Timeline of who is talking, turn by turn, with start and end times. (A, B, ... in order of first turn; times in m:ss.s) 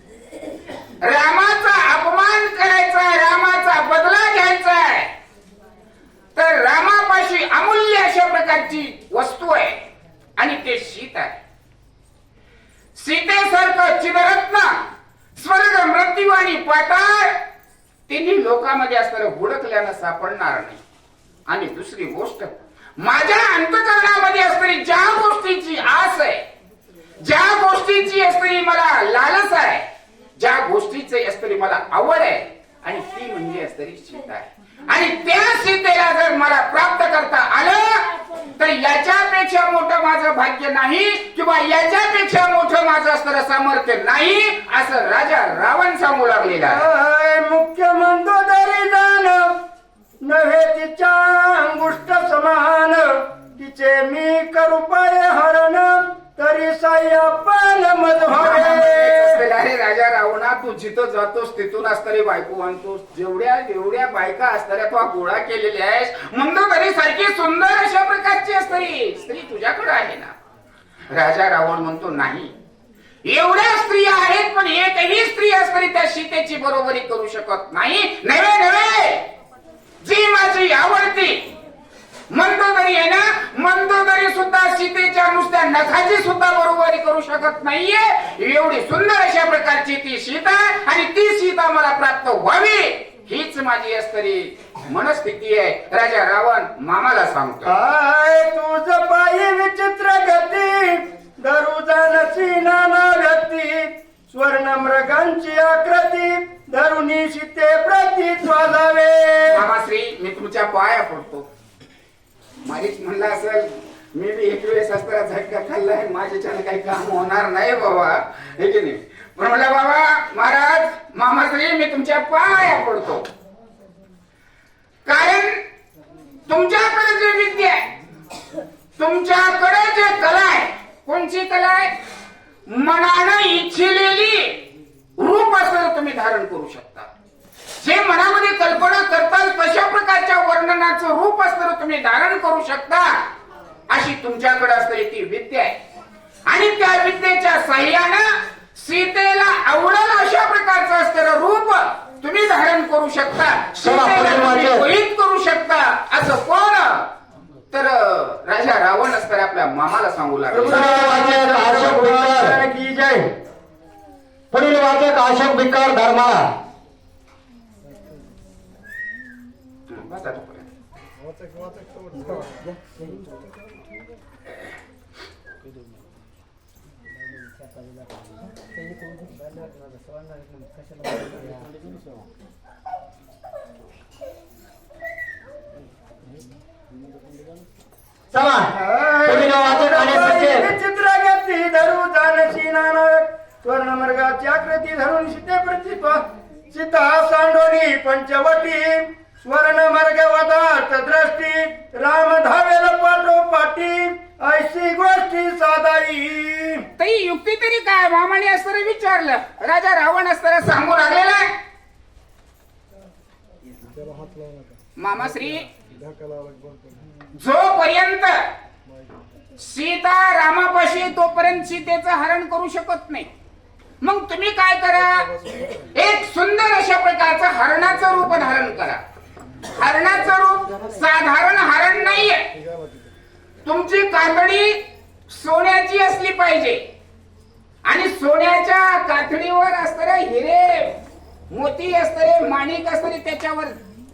0:01.0-0:05.1 A
0:06.4-0:09.8 A
0:10.4-0:11.4 A
0:13.0-0:14.7 A
0:15.4-0:17.3 A
0:18.1-0:20.8 A
0:21.5-0:26.4 A
0:27.2-0:29.8 A
0:30.4-0:46.8 A
0:46.7-0:49.5 B
0:50.2-0:59.4 B
0:58.3-1:10.3 A
1:11.1-1:12.5 A
1:13.2-1:19.3 A
1:20.0-1:21.5 A
1:22.3-1:37.7 A
1:37.6-1:49.6 B
1:49.5-1:51.4 A
1:52.6-2:03.2 A
2:05.0-2:05.6 A
2:06.5-2:07.9 A
2:09.0-2:11.9 A
2:12.7-2:14.6 A
2:15.2-2:17.1 A
2:17.8-2:23.2 A
2:23.9-2:25.7 A
2:26.5-2:37.0 A
2:33.8-2:34.8 C
2:37.7-2:40.9 A
2:40.5-2:43.3 B
2:40.7-2:42.6 C
2:44.5-2:46.5 C
2:49.9-2:50.6 A
3:08.3-3:08.7 C
3:08.8-3:26.8 B
3:09.2-3:10.7 C
3:27.0-3:31.4 A
3:35.0-3:35.7 A
3:37.4-3:38.3 A
3:39.6-3:43.3 A
3:44.0-3:45.3 A
3:45.8-3:49.0 A
3:49.7-3:52.5 A
3:53.6-3:56.8 A
3:57.8-4:01.0 A
4:01.5-4:03.7 A